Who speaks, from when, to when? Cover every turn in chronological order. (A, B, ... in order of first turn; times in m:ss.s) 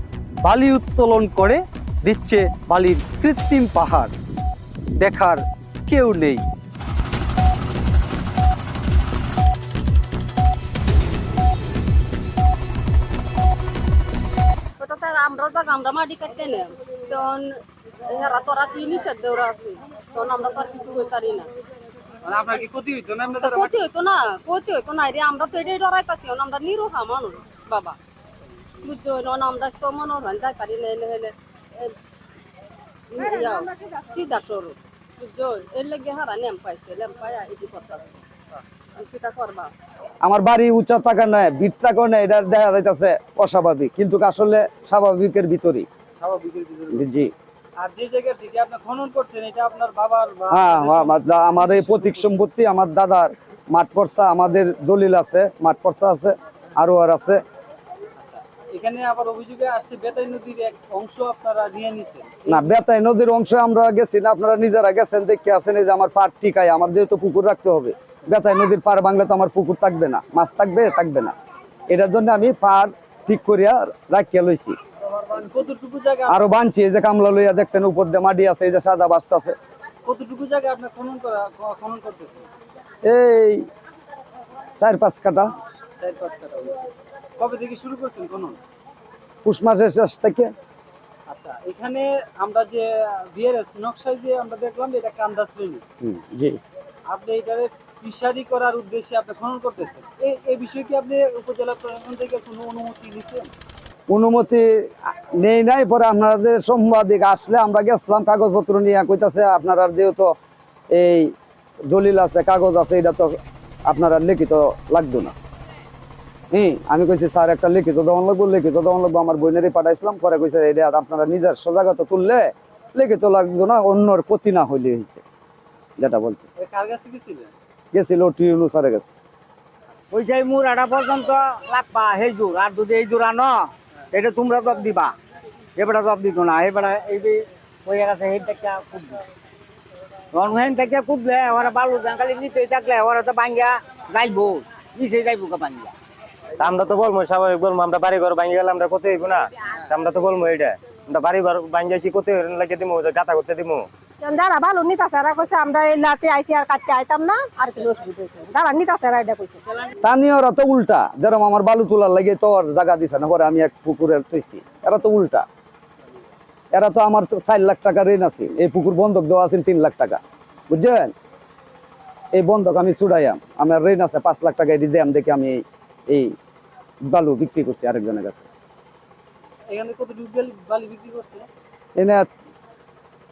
0:00.4-0:04.1 A
0:05.0-0:06.4 A
0:14.8-0:17.5 B
0:18.1-0:21.5 B
0:22.2-0:23.8 C
0:23.3-0:28.0 B
0:28.8-0:31.9 B
0:33.1-0:38.2 B
0:39.0-0:39.7 B
0:40.2-0:45.9 D
0:46.2-0:47.0 C
0:46.9-0:47.3 D
0:47.8-0:52.2 C
0:50.5-0:57.4 D
0:58.2-1:02.6 C
1:02.5-1:11.4 D
1:11.9-1:14.8 D
1:15.3-1:16.5 C
1:16.3-1:19.5 D
1:20.0-1:22.5 C
1:23.0-1:23.6 D
1:24.8-1:25.5 D
1:26.0-1:26.8 C
1:27.4-1:28.6 C
1:29.4-1:30.5 D
1:31.3-1:35.8 C
1:36.0-1:36.6 D
1:37.1-1:43.5 C
1:44.1-1:50.3 D
1:50.9-1:51.3 D
1:51.9-1:55.3 D
1:56.5-2:05.2 D
2:06.0-2:06.4 D
2:06.6-2:07.5 C
2:07.9-2:09.1 D
2:10.1-2:15.1 E
2:15.8-2:19.2 E
2:20.3-2:25.9 E
2:26.6-2:33.9 F
2:34.2-2:39.6 G
2:40.0-2:45.4 D
2:46.7-2:51.1 D
2:52.3-2:56.3 D
2:57.1-2:58.4 D
2:59.7-3:01.5 C
3:02.0-3:02.3 D